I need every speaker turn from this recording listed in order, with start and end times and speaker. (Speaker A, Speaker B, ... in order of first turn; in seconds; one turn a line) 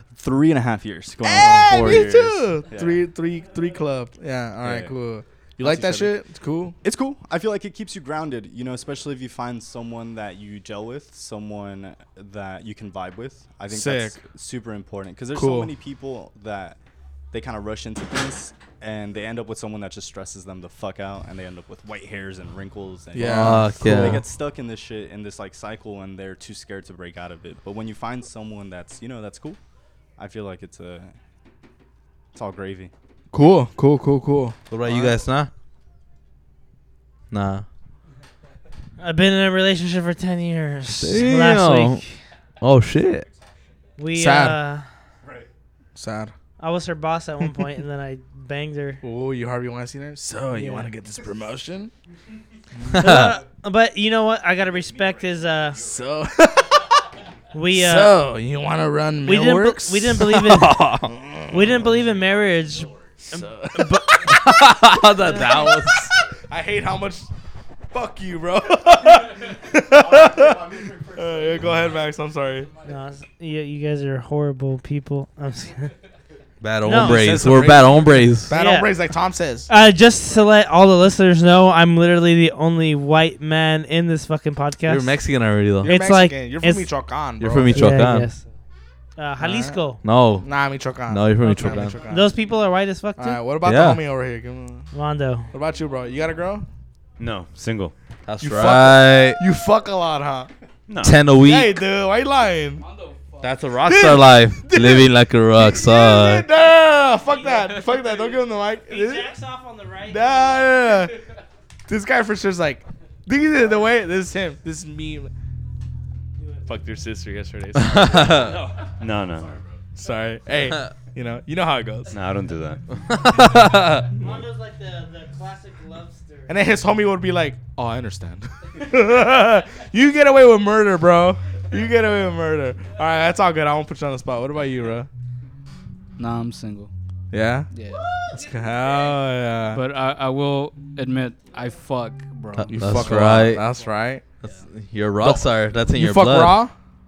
Speaker A: 0.2-3.0
Speaker B: 1.2-6.8
Speaker A: 4.6-5.0
Speaker A: 5.6-6.2
Speaker A: 6.8-16.8
Speaker B: 13.7-14.2
Speaker B: 15.3-15.7
Speaker A: 17.3-29.6
Speaker B: 23.1-24.2
Speaker C: 23.2-24.2
Speaker A: 30.2-31.1
Speaker A: 32.3-32.9
Speaker B: 33.3-35.2
Speaker C: 34.7-35.5
Speaker C: 37.3-37.6
Speaker D: 39.0-42.0
Speaker C: 41.0-43.3
Speaker D: 44.0-44.9
Speaker B: 44.1-44.6
Speaker B: 46.0-46.3
Speaker D: 46.6-49.0
Speaker B: 49.0-51.9
Speaker D: 50.5-50.9
Speaker B: 52.8-53.2
Speaker C: 52.9-53.4
Speaker D: 53.0-55.8
Speaker B: 55.7-57.0
Speaker D: 57.5-58.2
Speaker B: 57.7-60.4
Speaker D: 59.2-60.8
Speaker C: 60.2-61.1
Speaker B: 61.1-62.0
Speaker D: 61.5-64.1
Speaker B: 63.2-64.5
Speaker C: 64.3-66.1
Speaker D: 65.2-65.7
Speaker B: 65.3-67.3
Speaker B: 67.9-72.7
Speaker D: 72.8-75.9
Speaker C: 76.6-78.5
Speaker D: 76.8-77.4
Speaker B: 76.9-79.7
Speaker D: 78.5-78.9
Speaker D: 79.7-85.2
Speaker C: 84.9-85.9
Speaker D: 85.8-86.9
Speaker B: 85.8-87.8
Speaker C: 87.4-88.3
Speaker D: 87.7-88.5
Speaker D: 89.2-90.0
Speaker B: 89.4-89.8
Speaker C: 90.0-90.5
Speaker B: 90.4-92.3
Speaker C: 91.1-92.1
Speaker D: 92.1-93.4
Speaker B: 93.2-94.9
Speaker C: 93.6-94.0
Speaker D: 94.9-95.5
Speaker B: 95.5-96.7
Speaker E: 97.2-97.9
Speaker C: 98.3-99.4
Speaker B: 98.4-100.5
Speaker E: 100.9-101.2
Speaker C: 101.0-101.8
Speaker B: 101.3-102.8
Speaker F: 102.9-103.4
Speaker C: 103.4-106.5
Speaker B: 103.8-109.3
Speaker D: 107.3-111.0
Speaker B: 110.1-111.2
Speaker B: 111.9-115.3
Speaker D: 116.4-116.8
Speaker B: 116.7-118.6
Speaker C: 117.8-118.6
Speaker E: 118.3-119.6
Speaker B: 119.9-122.1
Speaker E: 122.1-122.8
Speaker C: 122.9-124.1
Speaker D: 124.1-126.6
Speaker B: 126.5-135.1
Speaker F: 136.2-136.9
Speaker B: 137.3-137.7
Speaker F: 137.7-138.1
Speaker B: 138.3-139.8
Speaker F: 139.7-143.2
Speaker C: 142.6-143.7
Speaker B: 142.7-144.2
Speaker C: 144.4-146.6
Speaker B: 145.2-146.7